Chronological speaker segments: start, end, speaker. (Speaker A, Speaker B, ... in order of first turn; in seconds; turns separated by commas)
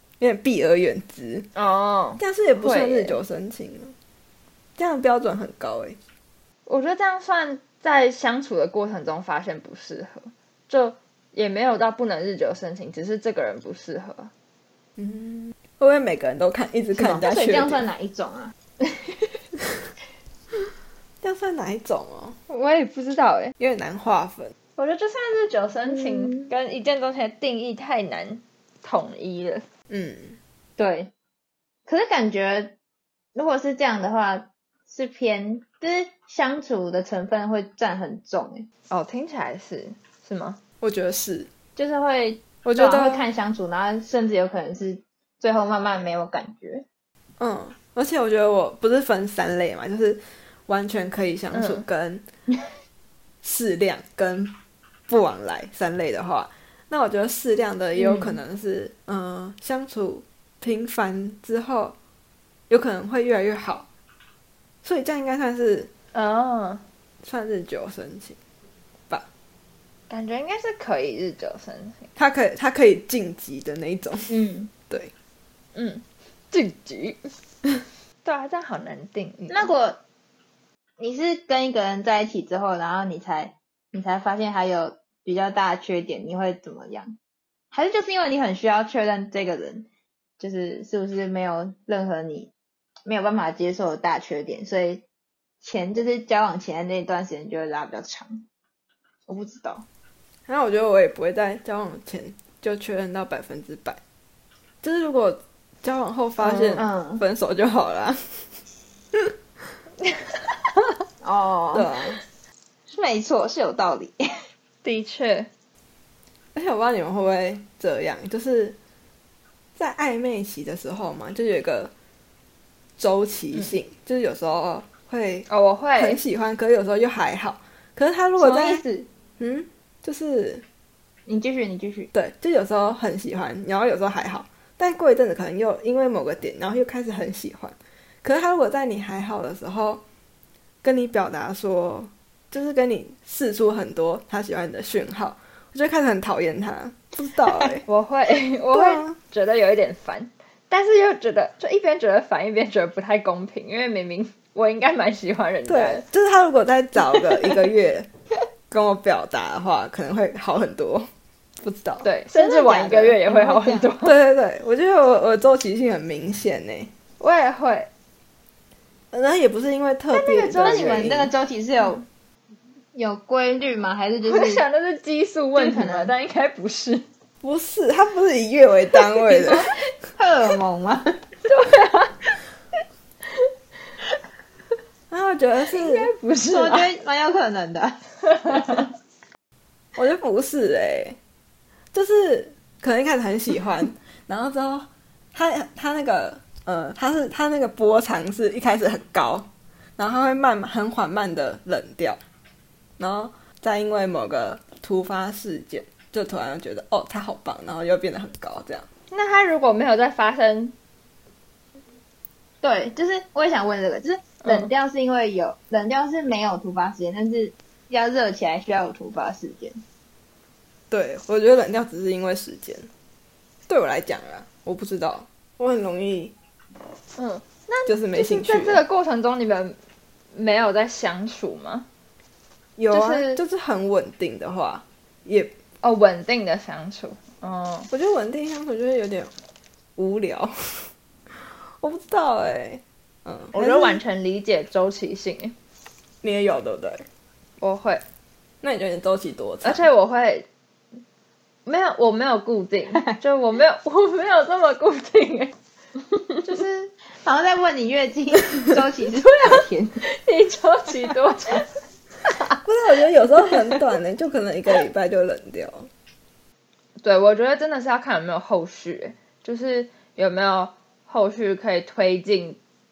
Speaker A: 0.2-1.5, Speaker B: 1.6-3.2, Speaker A: 2.2-4.0, Speaker A: 4.8-6.0, Speaker B: 6.7-14.3, Speaker A: 15.0-17.9, Speaker C: 16.9-19.3, Speaker A: 21.2-22.4, Speaker B: 22.5-23.5, Speaker A: 23.6-24.5, Speaker B: 24.8-29.6, Speaker C: 25.9-26.5, Speaker A: 29.9-30.4, Speaker C: 30.8-31.1, Speaker C: 31.9-32.7, Speaker C: 33.4-38.7, Speaker B: 38.9-40.6, Speaker A: 40.8-41.5, Speaker C: 41.8-46.9, Speaker A: 42.6-43.3, Speaker A: 47.4-52.3, Speaker B: 51.5-51.9, Speaker A: 53.4-54.5, Speaker A: 55.1-62.0, Speaker A: 62.7-63.9, Speaker A: 64.8-65.9, Speaker B: 66.1-66.8, Speaker A: 67.2-68.4, Speaker B: 70.1-72.1, Speaker A: 72.2-74.4, Speaker C: 74.3-74.7, Speaker B: 75.8-77.3, Speaker B: 78.2-79.7, Speaker C: 79.5-80.0, Speaker C: 81.0-87.2, Speaker C: 87.7-89.9, Speaker C: 90.4-92.5, Speaker C: 93.1-95.0, Speaker C: 95.6-98.4, Speaker C: 99.3-99.8, Speaker A: 100.5-104.0, Speaker A: 104.8-108.5, Speaker C: 106.8-107.2, Speaker C: 111.2-111.9, Speaker A: 111.7-112.2, Speaker C: 112.9-114.2, Speaker B: 114.8-115.5, Speaker A: 116.5-118.8, Speaker A: 119.8-121.9, Speaker A: 123.0-128.8, Speaker B: 125.5-126.2, Speaker C: 128.4-129.1, Speaker A: 129.4-130.6, Speaker C: 131.3-132.1, Speaker A: 132.1-140.0, Speaker A: 140.8-147.8, Speaker B: 147.9-156.0, Speaker A: 148.7-149.2, Speaker A: 155.7-158.1, Speaker A: 158.7-161.1, Speaker A: 161.6-162.1, Speaker B: 162.0-164.1, Speaker C: 162.3-163.9, Speaker A: 164.0-166.9, Speaker B: 167.2-167.9, Speaker A: 169.1-171.3, Speaker B: 170.1-171.1, Speaker C: 170.6-172.0, Speaker C: 172.9-174.6, Speaker B: 174.2-177.1, Speaker C: 175.6-176.1, Speaker A: 177.4-179.7, Speaker C: 180.2-181.2, Speaker B: 181.5-182.3, Speaker A: 185.1-186.1, Speaker B: 185.7-186.9, Speaker C: 186.5-188.8, Speaker B: 188.4-188.8, Speaker A: 190.0-191.2, Speaker A: 191.9-202.2, Speaker A: 203.0-208.9, Speaker B: 209.1-210.7, Speaker C: 212.6-219.8, Speaker A: 220.9-222.9, Speaker A: 223.7-226.3, Speaker B: 227.2-229.8, Speaker A: 227.9-228.8, Speaker B: 230.3-231.9, Speaker A: 232.8-235.5, Speaker B: 232.9-233.4, Speaker B: 235.8-237.9, Speaker A: 237.9-239.3, Speaker A: 240.0-244.0, Speaker B: 243.5-245.6, Speaker A: 246.2-247.1, Speaker B: 247.6-248.0, Speaker A: 248.6-249.9, Speaker B: 249.6-250.5, Speaker B: 251.7-255.5, Speaker B: 256.4-256.9, Speaker C: 257.2-260.0, Speaker B: 259.3-261.7, Speaker A: 262.6-265.9, Speaker B: 267.0-272.6